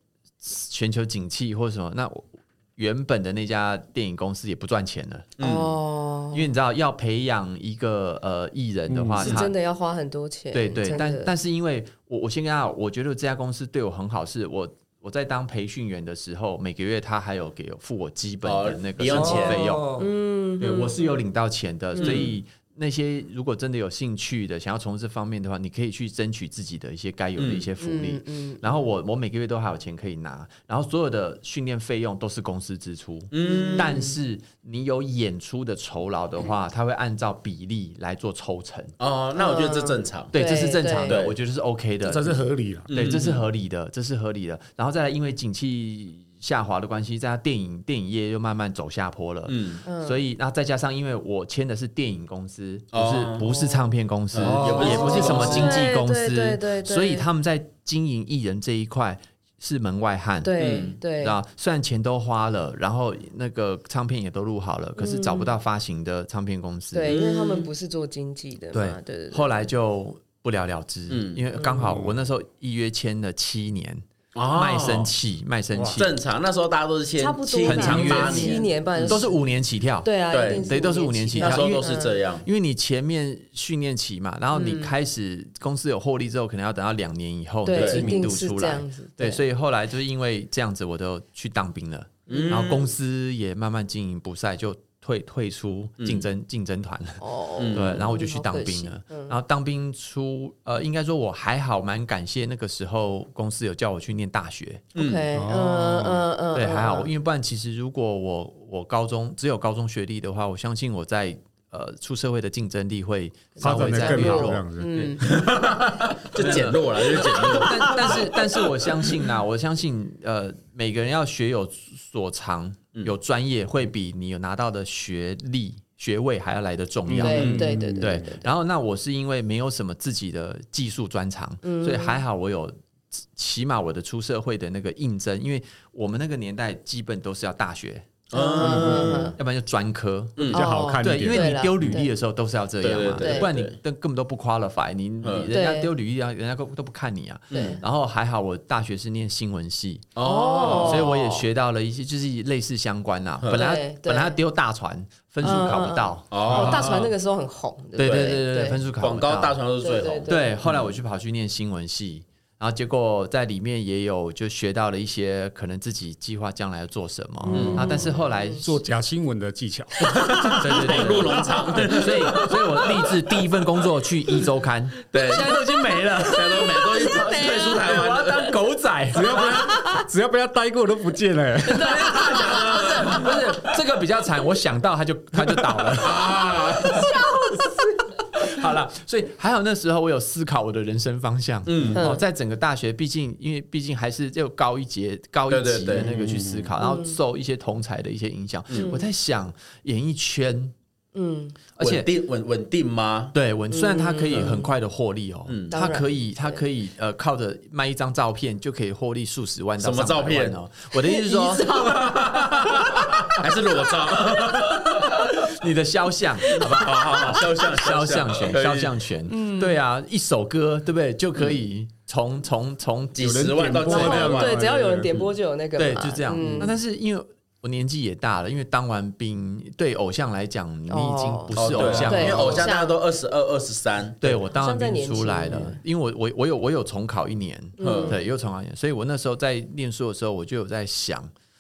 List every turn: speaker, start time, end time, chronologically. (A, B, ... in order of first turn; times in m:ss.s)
0:00.4-0:05.3 A
0:05.4-0:05.8 B
0:05.4-0:06.5 C
0:06.3-0:09.5 A
0:08.9-0:09.3 D
0:09.2-0:09.5 B
0:09.2-0:11.3 C
0:10.5-0:20.0 A
0:18.4-0:19.8 B
0:19.1-0:20.1 D
0:20.0-0:21.2 C
0:20.6-0:38.9 A
0:22.0-0:22.3 C
0:22.0-0:22.3 B
0:27.4-0:27.7 B
0:27.8-0:28.8 C
0:33.3-0:34.1 B
0:33.4-0:34.1 C
0:39.0-0:40.3 B
0:39.4-0:41.2 C
0:40.3-1:07.2 A
0:41.0-0:41.4 B
0:42.0-0:42.9 D
0:42.9-0:43.5 B
0:49.5-0:49.8 B
0:49.8-0:50.2 C
0:52.9-0:53.7 B
0:54.3-0:55.9 B
0:54.4-0:55.4 D
0:54.8-0:57.2 C
1:00.4-1:01.4 C
1:00.6-1:01.0 B
1:05.0-1:05.5 C
1:06.9-1:09.5 C
1:07.1-1:07.7 B
1:08.7-1:16.1 A
1:11.1-1:11.4 B
1:11.6-1:11.8 C
1:11.8-1:12.1 D
1:14.4-1:15.1 B
1:15.7-1:16.0 D
1:16.0-1:19.3 B
1:17.2-1:19.4 C
1:17.6-1:37.2 A
1:20.0-1:22.2 C
1:20.3-1:20.7 B
1:21.4-1:22.5 B
1:24.5-1:24.9 C
1:27.6-1:29.4 C
1:27.7-1:28.2 B
1:32.3-1:32.9 B
1:32.3-1:32.7 C
1:36.0-1:36.3 B
1:37.2-1:39.4 C
1:37.6-1:38.0 B
1:37.7-1:44.9 A
1:45.0-1:45.3 B
1:45.0-1:47.1 C
1:45.3-1:46.3 D
1:46.5-1:55.3 A
1:53.6-1:55.2 C
1:53.6-1:55.1 D
1:55.2-1:59.0 B
1:56.4-2:18.1 A
2:07.1-2:08.2 D
2:07.1-2:08.5 C
2:07.3-2:07.6 B
2:11.6-2:12.2 C
2:18.3-2:19.4 B
2:18.3-2:19.4 C
2:18.6-2:30.1 A
2:20.4-2:20.6 B
2:20.5-2:22.0 D
2:20.5-2:22.1 C
2:22.8-2:23.8 B
2:23.2-2:23.5 C
2:25.2-2:25.5 B
2:25.5-2:25.9 C
2:27.5-2:27.8 C
2:27.5-2:27.8 B
2:30.2-2:31.1 B
2:30.2-2:31.5 C
2:30.6-2:36.8 A
2:33.4-2:33.7 B
2:33.5-2:34.4 C
2:35.4-2:38.8 C
2:36.3-2:37.1 B
2:36.5-2:36.8 D
2:38.0-2:39.6 A
2:38.0-2:38.4 B
2:39.0-2:40.9 B
2:39.8-2:40.5 C
2:40.3-2:48.8 A
2:47.4-2:52.6 D
2:47.5-2:48.0 B
2:50.1-2:52.6 B
2:50.6-2:59.9 A
2:55.1-2:58.5 B
2:56.6-2:57.9 C
2:59.1-3:02.5 D
3:01.7-3:07.7 A
3:01.7-3:03.3 C
3:02.5-3:03.1 B
3:06.0-3:07.1 B
3:06.9-3:08.1 C
3:08.3-3:20.8 A
3:11.7-3:12.1 B
3:11.9-3:12.2 C
3:15.5-3:16.2 B
3:16.1-3:16.7 D
3:16.8-3:17.2 C
3:18.7-3:19.0 B
3:18.7-3:19.0 C
3:21.1-3:21.6 C
3:21.8-3:22.1 A
3:21.8-3:23.4 B
3:23.3-3:33.3 A
3:23.7-3:24.7 C
3:24.3-3:24.6 B
3:25.5-3:25.8 B
3:25.7-3:26.6 C
3:29.8-3:30.6 B
3:31.1-3:32.9 C
3:31.8-3:35.3 B
3:34.1-3:43.5 A
3:36.5-3:39.0 B
3:39.3-3:39.8 C
3:43.2-3:44.6 B
3:43.2-3:45.1 D
3:43.9-3:46.8 C
3:45.8-3:52.6 A
3:46.3-3:46.7 D
3:50.9-3:53.0 C
3:51.5-3:54.4 B
3:51.8-3:52.6 D
3:54.2-4:01.3 A
3:54.5-3:55.8 C
3:57.8-3:58.2 C
3:57.8-3:58.2 B